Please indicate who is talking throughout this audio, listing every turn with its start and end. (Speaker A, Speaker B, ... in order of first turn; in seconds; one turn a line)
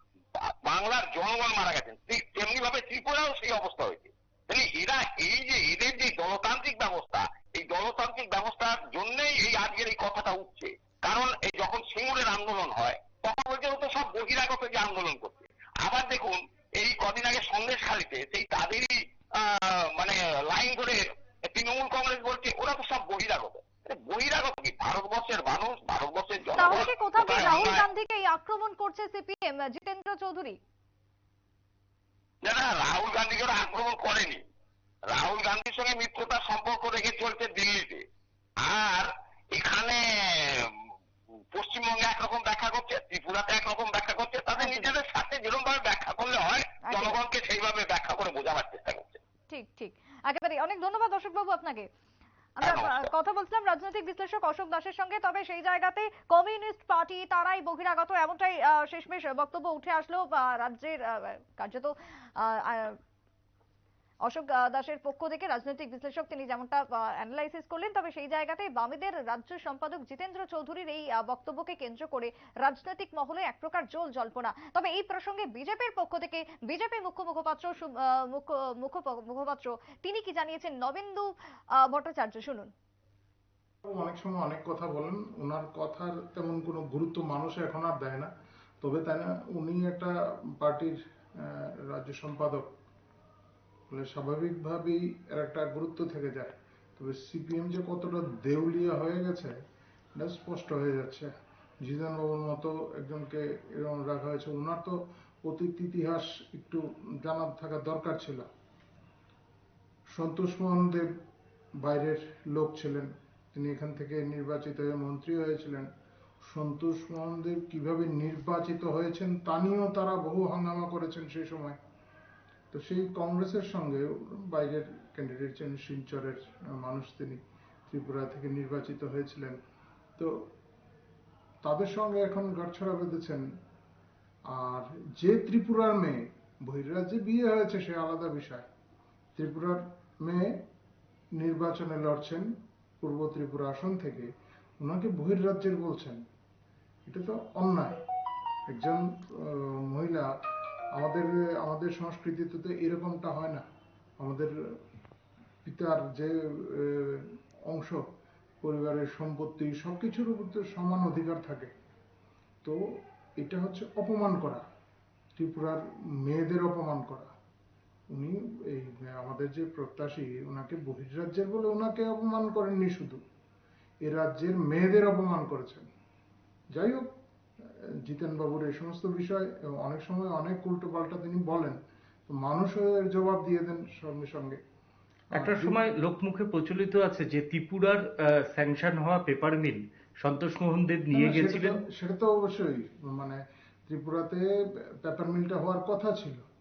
Speaker A: 0.7-27.8
Speaker B: 26.6-30.6
Speaker A: 32.4-34.4
Speaker A: 35.1-38.0
Speaker A: 38.6-40.0
Speaker A: 41.5-49.2
Speaker B: 44.6-44.9
Speaker B: 46.9-47.2
Speaker B: 49.5-51.9
Speaker B: 52.6-63.0
Speaker A: 52.6-53.1
Speaker B: 64.2-81.3
Speaker B: 81.8-82.7
Speaker C: 83.8-88.3
Speaker C: 88.8-92.7
Speaker C: 93.9-99.5
Speaker C: 100.2-101.3
Speaker C: 101.8-108.5
Speaker C: 110.2-111.1
Speaker C: 111.8-115.9
Speaker C: 116.4-121.8
Speaker C: 122.7-129.6
Speaker C: 131.6-133.4
Speaker C: 134.5-138.6
Speaker C: 139.3-140.6
Speaker C: 141.4-142.5
Speaker C: 143.0-144.3
Speaker C: 144.8-146.2
Speaker C: 147.1-147.9
Speaker C: 148.7-150.3
Speaker C: 150.9-153.6
Speaker C: 154.2-154.5
Speaker C: 155.6-158.0
Speaker C: 158.6-161.7
Speaker C: 163.4-164.6
Speaker C: 165.4-167.3
Speaker C: 168.1-173.2
Speaker C: 174.0-175.9
Speaker C: 176.7-177.1
Speaker C: 178.1-181.8
Speaker C: 182.3-184.6
Speaker C: 185.3-185.8
Speaker D: 185.3-191.7
Speaker C: 191.1-194.4
Speaker C: 195.0-196.4